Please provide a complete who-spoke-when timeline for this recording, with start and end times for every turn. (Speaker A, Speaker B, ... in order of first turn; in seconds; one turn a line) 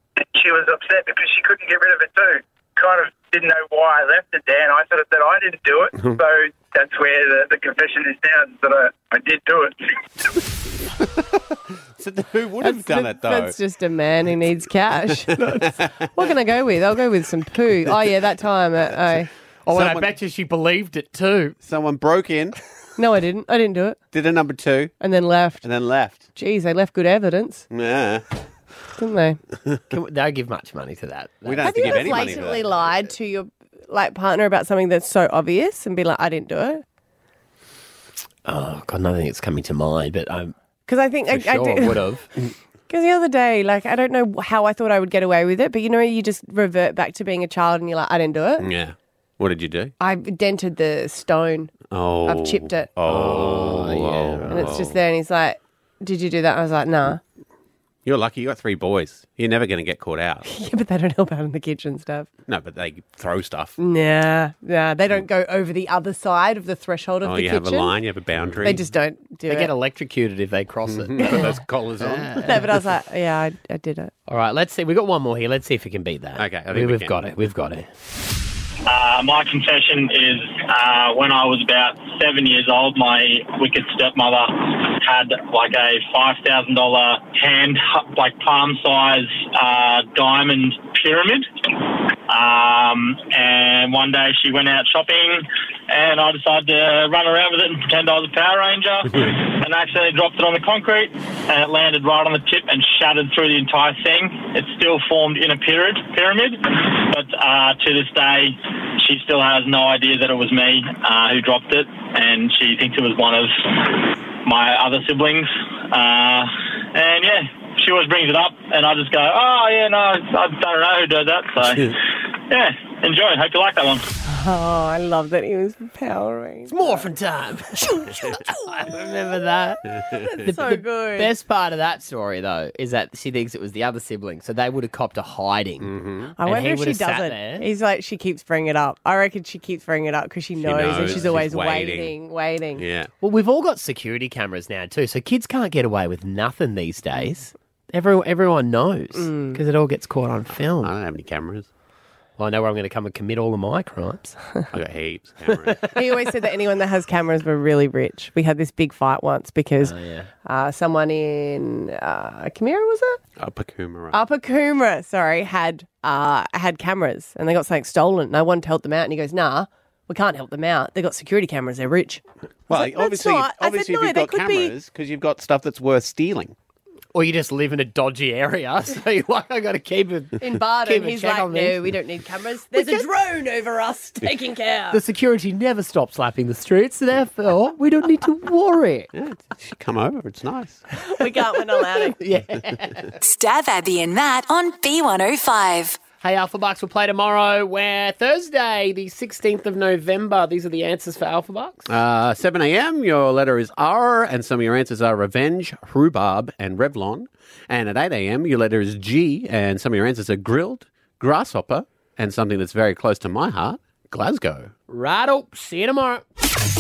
Speaker A: 0.2-9.8
Speaker B: 11.0-11.4
Speaker B: 11.9-13.6
Speaker C: 12.6-19.3
Speaker B: 15.6-15.9
Speaker D: 19.7-21.6
Speaker B: 19.7-20.1
Speaker B: 21.6-22.6
Speaker C: 23.0-24.0
Speaker B: 24.1-24.9
Speaker C: 25.0-25.6
Speaker B: 25.6-26.3
Speaker C: 26.3-27.7
Speaker B: 27.7-28.2
Speaker C: 29.0-29.4
Speaker D: 29.9-32.4
Speaker B: 31.4-32.8
Speaker C: 31.6-36.8
Speaker D: 38.5-40.5
Speaker C: 40.9-42.1
Speaker D: 41.3-42.2
Speaker C: 42.9-48.7
Speaker B: 48.6-49.9
Speaker C: 50.0-51.7
Speaker B: 51.9-55.0
Speaker C: 52.2-52.9
Speaker D: 53.1-54.7
Speaker C: 54.5-57.2
Speaker B: 58.0-60.5
Speaker C: 60.5-62.3
Speaker B: 62.5-63.8
Speaker C: 63.8-68.0
Speaker B: 67.2-68.9
Speaker C: 68.6-69.7
Speaker D: 69.5-72.6
Speaker B: 70.9-72.7
Speaker C: 72.5-74.1
Speaker D: 74.3-77.9
Speaker B: 76.4-77.2
Speaker E: 78.9-91.5
Speaker E: 92.3-122.0
Speaker E: 122.5-124.1
Speaker C: 124.2-127.0
Speaker D: 126.7-129.8
Speaker C: 127.8-128.6
Speaker C: 130.2-131.3
Speaker D: 130.4-135.9
Speaker B: 135.8-136.3
Speaker C: 136.4-142.8
Speaker D: 136.4-137.7
Speaker B: 140.6-142.1
Speaker D: 140.9-141.3
Speaker B: 142.8-143.1
Speaker D: 143.2-150.9
Speaker C: 149.2-149.6
Speaker B: 150.8-151.7
Speaker D: 152.4-154.4
Speaker B: 154.7-155.9
Speaker C: 155.9-163.2
Speaker D: 159.8-160.3
Speaker B: 163.4-164.2
Speaker C: 164.1-174.7
Speaker B: 172.7-176.6
Speaker D: 177.1-181.9
Speaker C: 180.4-185.0
Speaker D: 182.8-183.1
Speaker D: 184.9-189.1
Speaker B: 189.1-190.8
Speaker C: 191.2-192.2
Speaker D: 192.0-193.2
Speaker F: 193.2-196.0
Speaker D: 196.2-201.9
Speaker B: 201.9-214.7
Speaker D: 214.9-216.2